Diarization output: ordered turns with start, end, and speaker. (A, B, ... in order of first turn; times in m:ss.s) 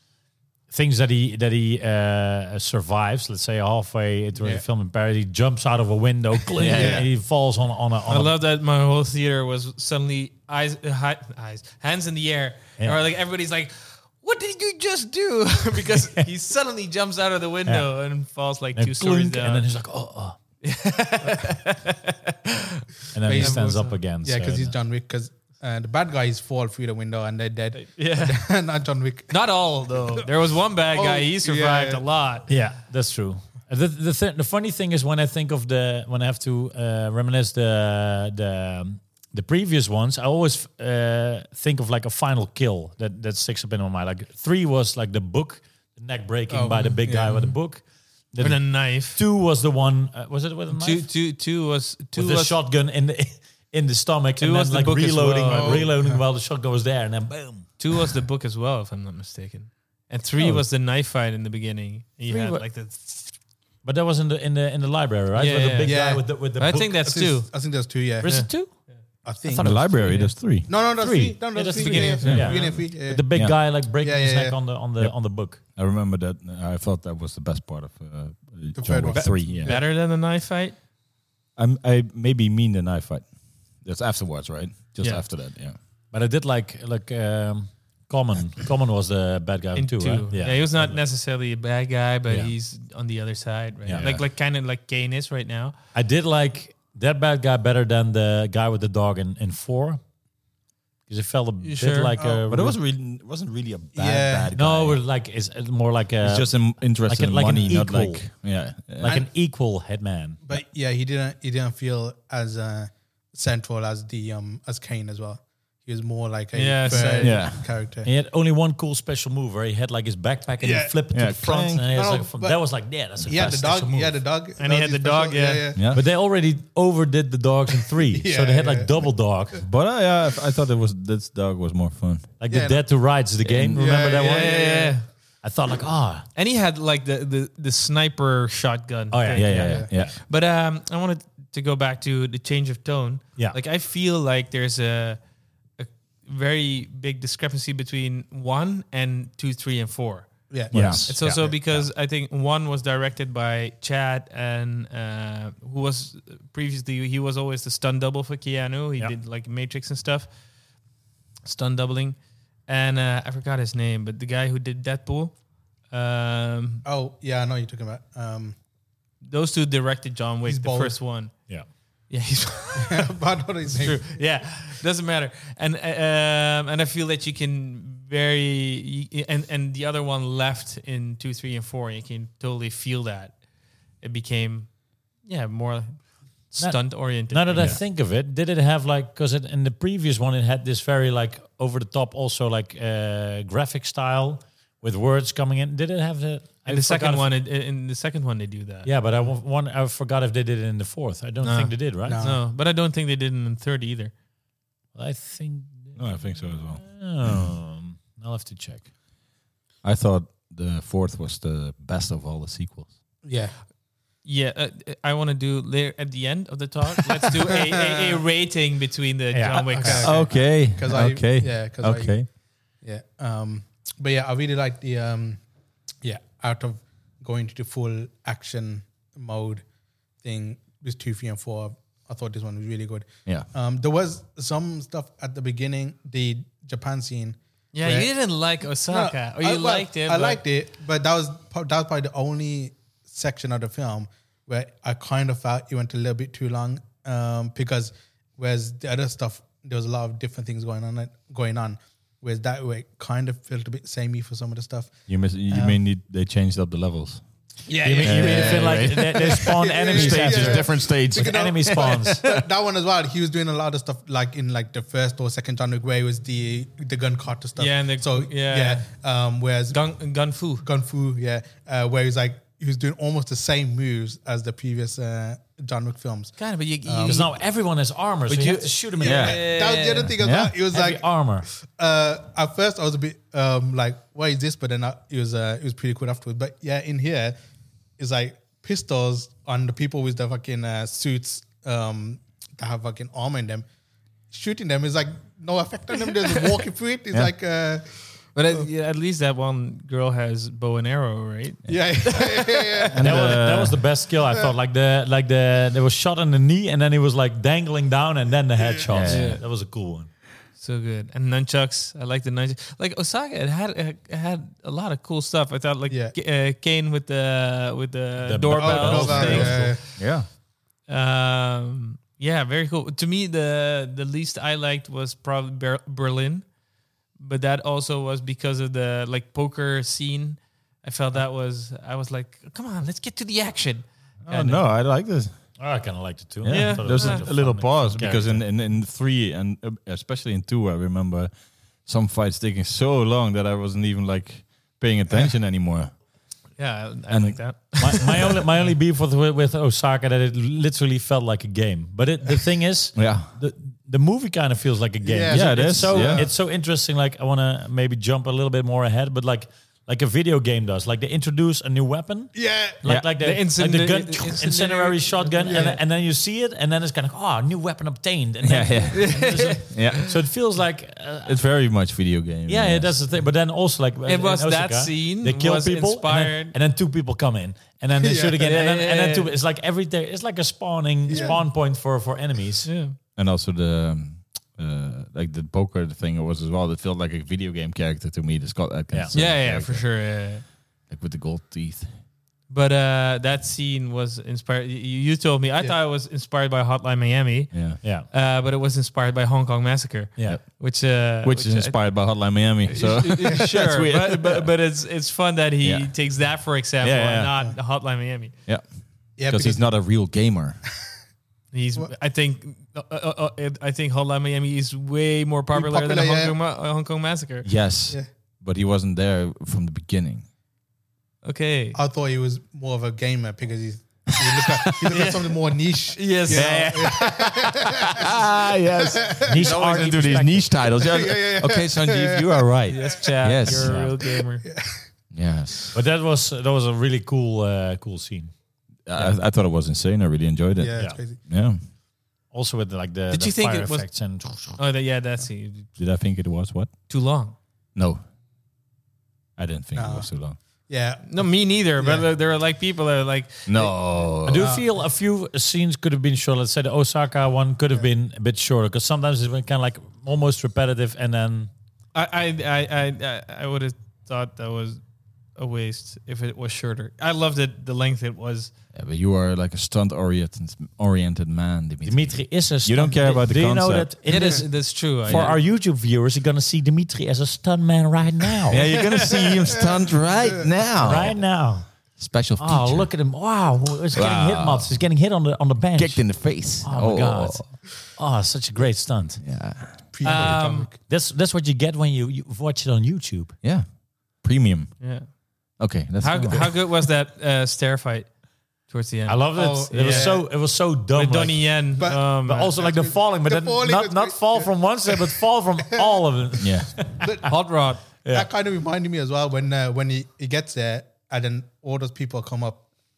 0:00.7-0:08.3 A
0:04.3-0:04.6 B
0:06.6-0:07.0 C
0:06.6-0:07.1 B
0:08.1-0:19.7 D
0:17.6-0:17.9 A
0:18.7-0:20.4 A
0:20.6-0:24.0 D
0:23.1-0:24.8 A
0:23.2-0:30.2 B
0:27.8-0:28.5 D
0:29.3-0:32.5 D
0:30.9-0:32.0 B
0:32.5-0:51.1 A
0:46.5-0:47.5 B
0:48.4-0:49.2 D
0:50.7-0:52.6 D
0:52.1-0:57.9 A
0:54.4-0:55.9 D
0:55.5-0:56.2 B
0:57.8-1:03.0 D
1:00.4-1:00.6 A
1:02.3-1:03.2 A
1:03.8-1:07.0 A
1:05.3-1:07.5 D
1:05.8-1:06.3 B
1:07.0-1:08.6 B
1:08.2-1:08.7 A
1:08.2-1:09.0 D
1:09.2-1:09.9 B
1:09.5-1:15.6 A
1:09.5-1:10.7 C
1:10.7-1:14.6 B
1:11.6-1:12.8 D
1:12.2-1:12.5 C
1:15.0-1:19.8 C
1:18.7-1:19.9 B
1:19.1-1:20.8 D
1:21.6-1:25.8 C
1:26.1-1:31.0 A
1:29.8-1:35.7 D
1:33.8-1:34.1 A
1:33.9-1:34.2 C
1:35.9-1:40.0 A
1:41.1-1:42.8 A
1:41.6-1:42.2 D
1:42.2-1:42.5 B
1:42.5-1:45.0 C
1:43.9-1:44.5 B
1:44.5-1:48.2 A
1:46.2-1:49.2 C
1:49.0-1:50.4 A
1:49.0-1:49.3 B
1:50.4-1:58.1 B
1:56.5-1:57.4 D
1:57.2-1:57.6 C
1:58.0-2:04.2 A
2:00.6-2:00.9 B
2:01.1-2:01.9 C
2:01.9-2:05.8 B
2:04.6-2:05.7 D
2:05.7-2:06.0 C
2:05.9-2:09.6 A
2:07.9-2:09.1 B
2:09.6-2:12.3 C
2:12.4-2:14.6 A
2:12.5-2:12.8 B
2:13.5-2:13.8 C
2:13.6-2:15.0 B
2:14.1-2:15.1 D
2:15.4-2:16.2 A
2:16.3-2:25.2 D
2:19.1-2:20.1 A
2:19.3-2:20.1 C
2:19.6-2:19.9 B
2:25.8-2:30.4 D
2:30.5-2:31.0 B
2:30.7-2:31.5 A
2:30.7-2:31.0 C
2:31.0-2:40.3 D
2:41.4-2:45.4 D
2:45.9-2:46.8 D
2:46.8-2:48.6 B
2:49.2-2:53.1 D
2:50.4-2:51.0 B
2:52.7-2:54.0 B
2:53.7-3:03.4 D
3:04.0-3:07.8 D
3:06.6-3:17.3 A
3:07.5-3:07.8 C
3:16.7-3:18.9 D
3:18.8-3:22.2 A
3:21.4-3:24.1 D
3:22.0-3:22.4 B
3:24.9-3:28.9 A
3:26.0-3:27.4 C
3:29.8-3:32.9 C
3:33.2-3:33.6 B
3:34.2-3:40.3 D
3:37.5-3:38.2 B
3:39.3-3:40.0 A
3:39.7-3:42.3 B
3:40.0-3:42.3 C
3:42.8-3:45.4 B
3:46.0-3:49.6 B
3:50.2-3:58.1 B
3:57.7-4:00.4 D
3:58.9-4:15.8 B
4:15.1-4:17.2 C
4:17.7-4:29.8 B
4:17.8-4:22.2 A
4:18.0-4:22.0 C
4:27.6-4:28.8 D
4:29.7-4:30.6 D
4:30.6-4:37.2 B
4:36.4-4:37.3 D
4:37.0-4:39.4 A
4:38.3-4:40.1 D
4:39.0-4:47.4 B
4:39.0-4:39.4 C
4:40.2-4:40.5 C
4:40.7-4:41.5 A
4:48.0-4:53.6 B
4:54.3-4:58.6 B
4:58.3-5:03.3 D
5:01.7-5:03.3 B
5:02.9-5:03.8 C
5:03.0-5:10.1 A
5:08.6-5:08.9 B
5:08.9-5:09.4 C
5:09.0-5:09.4 D
5:10.6-5:20.0 D
5:15.9-5:16.1 B
5:18.2-5:19.8 A
5:18.5-5:19.8 B
5:19.2-5:20.3 C
5:20.9-5:26.5 D
5:27.2-5:34.6 D
5:34.2-5:35.4 C
5:35.6-5:38.4 A
5:36.4-5:41.3 C
5:36.5-5:37.3 D
5:41.8-5:45.9 C
5:46.6-5:48.4 D
5:47.1-5:47.4 C
5:47.8-6:11.4 A
5:52.9-5:53.3 C
5:55.0-5:56.3 B
5:55.3-5:56.3 C
6:02.3-6:02.8 B
6:03.2-6:05.7 D
6:05.4-6:05.8 B
6:08.4-6:10.1 C
6:08.9-6:10.0 D
6:11.2-6:13.0 C
6:12.4-6:22.7 A
6:14.0-6:16.6 D
6:18.0-6:18.4 B
6:18.4-6:19.3 D
6:21.1-6:21.4 B
6:21.1-6:21.4 D
6:22.6-6:23.0 D
6:23.1-6:30.3 C
6:29.1-6:30.4 D
6:30.8-6:31.9 C
6:32.5-6:48.3 D
6:37.5-6:37.8 C
6:37.8-6:38.1 A
6:40.2-6:40.4 A
6:40.2-6:44.5 C
6:45.6-6:46.0 C
6:46.8-6:47.3 C
6:48.5-6:50.6 C
6:49.2-6:49.7 B
6:51.5-6:57.5 D
6:55.5-6:56.4 B
6:57.4-7:00.2 C
7:01.2-7:01.8 D
7:01.7-7:08.2 B
7:04.3-7:04.7 C
7:04.9-7:05.3 D
7:05.9-7:07.6 D
7:06.3-7:13.9 C
7:08.7-7:12.5 B
7:09.2-7:10.5 A
7:12.7-7:14.4 D
7:13.6-7:13.9 A
7:14.0-7:14.8 B
7:15.1-7:15.8 C
7:15.7-7:18.3 A
7:18.8-7:21.6 C
7:20.6-7:21.2 B
7:22.3-7:24.6 A
7:23.1-7:23.9 D
7:24.5-7:25.7 D
7:25.8-7:26.7 C
7:26.9-7:27.3 D
7:27.7-7:28.0 C
7:29.4-7:30.4 C
7:29.7-7:30.1 B
7:30.7-7:32.1 B
7:31.0-7:33.9 D
7:33.5-7:34.5 C
7:34.2-7:41.5 A
7:34.3-7:34.6 B
7:41.9-7:44.8 D
7:45.4-7:48.5 D
7:48.7-7:54.0 C
7:51.8-7:58.6 A
7:54.0-7:55.4 D
7:55.0-7:55.4 C
7:58.5-8:02.9 C
8:00.8-8:09.2 A
8:03.9-8:04.8 C
8:05.8-8:07.5 C
8:09.2-8:09.9 C
8:09.9-8:10.8 B
8:10.0-8:10.7 D
8:10.8-8:13.4 A
8:13.4-8:16.6 C
8:14.8-8:15.1 D
8:16.0-8:20.3 D
8:19.0-8:27.1 A
8:19.3-8:20.2 B
8:20.9-8:22.5 D
8:21.8-8:25.2 B
8:25.8-8:26.0 B
8:26.4-8:26.9 C
8:26.9-8:32.7 B
8:27.2-8:27.8 D
8:28.0-8:28.3 A